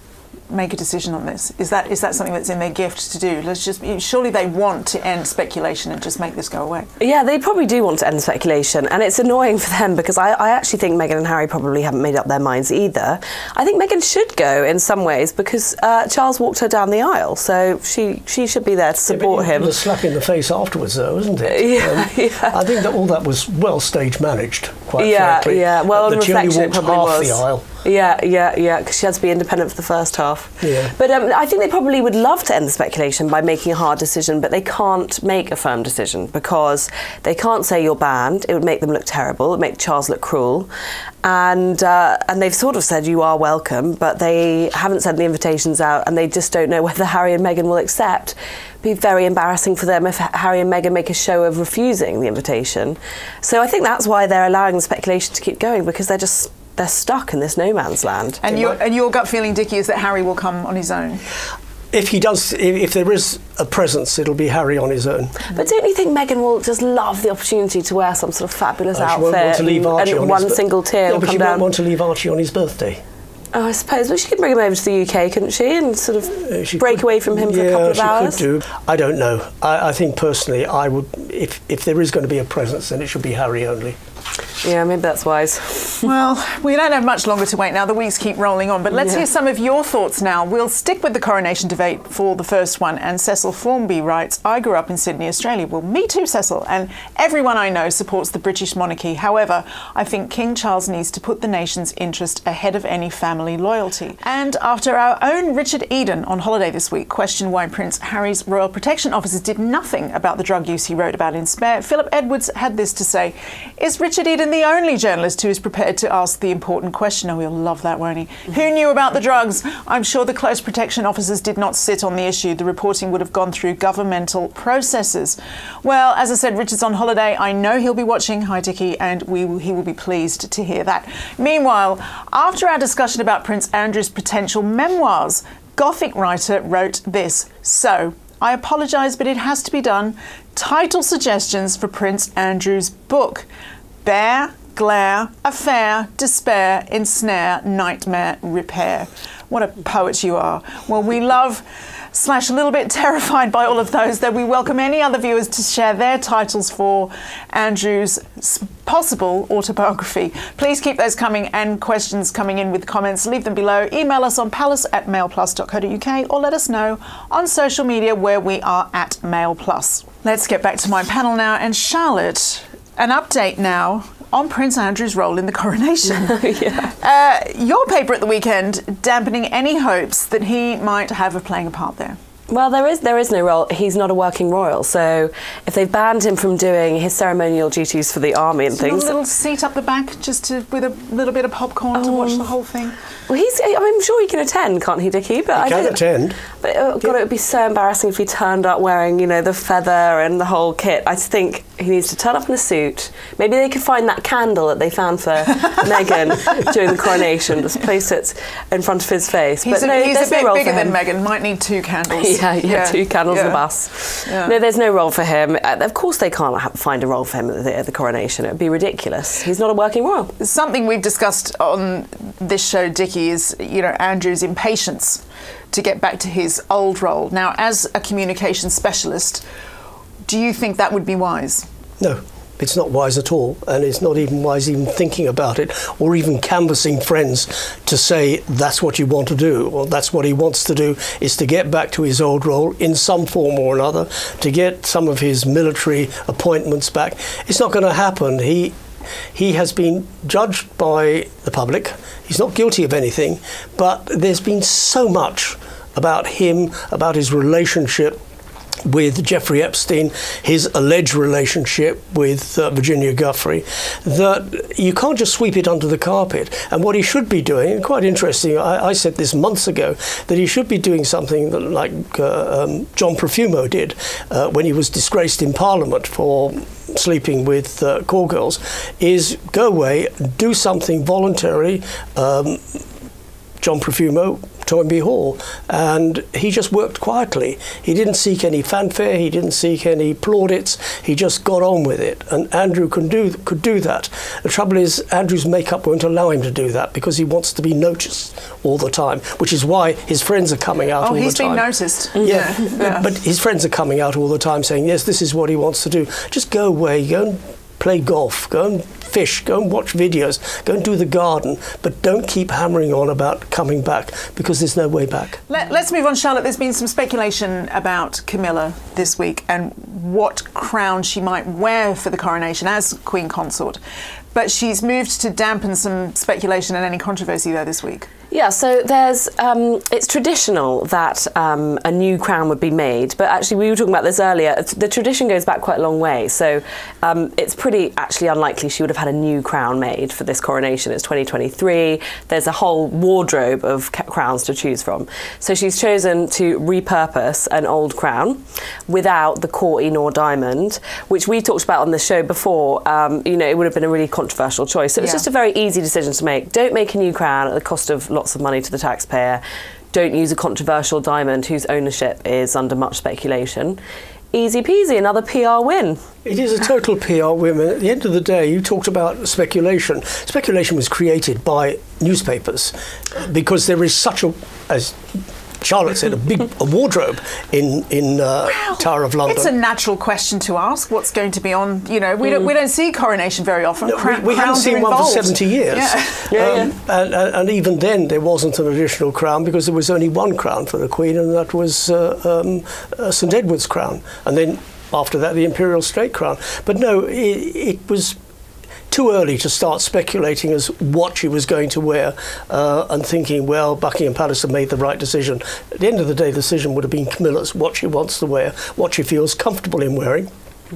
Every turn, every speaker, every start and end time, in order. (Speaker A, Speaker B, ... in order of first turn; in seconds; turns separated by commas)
Speaker A: 0.5-6.9, Speaker B: 7.0-19.8, Speaker C: 19.1-27.6, Speaker B: 21.4-22.6, Speaker B: 25.0-40.7, Speaker C: 30.6-30.9, Speaker B: 41.2-58.4, Speaker A: 58.4-61.2, Speaker C: 61.9-65.4, Speaker B: 65.5-71.7, Speaker C: 68.9-73.0, Speaker B: 73.5-78.4, Speaker C: 76.3-84.0, Speaker B: 84.6-86.1, Speaker A: 86.0-143.5, Speaker A: 144.0-182.2, Speaker B: 176.1-176.9, Speaker B: 182.5-189.1, Speaker A: 188.7-192.9, Speaker B: 191.9-192.5, Speaker B: 193.3-196.0, Speaker C: 195.5-196.4, Speaker B: 196.6-211.0, Speaker A: 209.6-213.7, Speaker B: 212.1-220.3, Speaker A: 214.3-214.6, Speaker A: 220.4-229.4, Speaker A: 230.2-231.7, Speaker C: 232.0-248.7, Speaker C: 249.3-258.2, Speaker C: 258.9-282.8, Speaker C: 283.6-301.7, Speaker A: 301.0-303.1, Speaker C: 302.2-315.4, Speaker A: 315.5-323.8, Speaker A: 324.3-328.1, Speaker B: 328.3-359.4, Speaker A: 355.0-355.2, Speaker B: 359.9-363.8, Speaker B: 364.3-366.0, Speaker C: 366.2-375.0, Speaker C: 375.6-379.5, Speaker A: 378.5-386.3, Speaker C: 383.8-398.2, Speaker B: 386.3-386.7, Speaker C: 398.9-410.3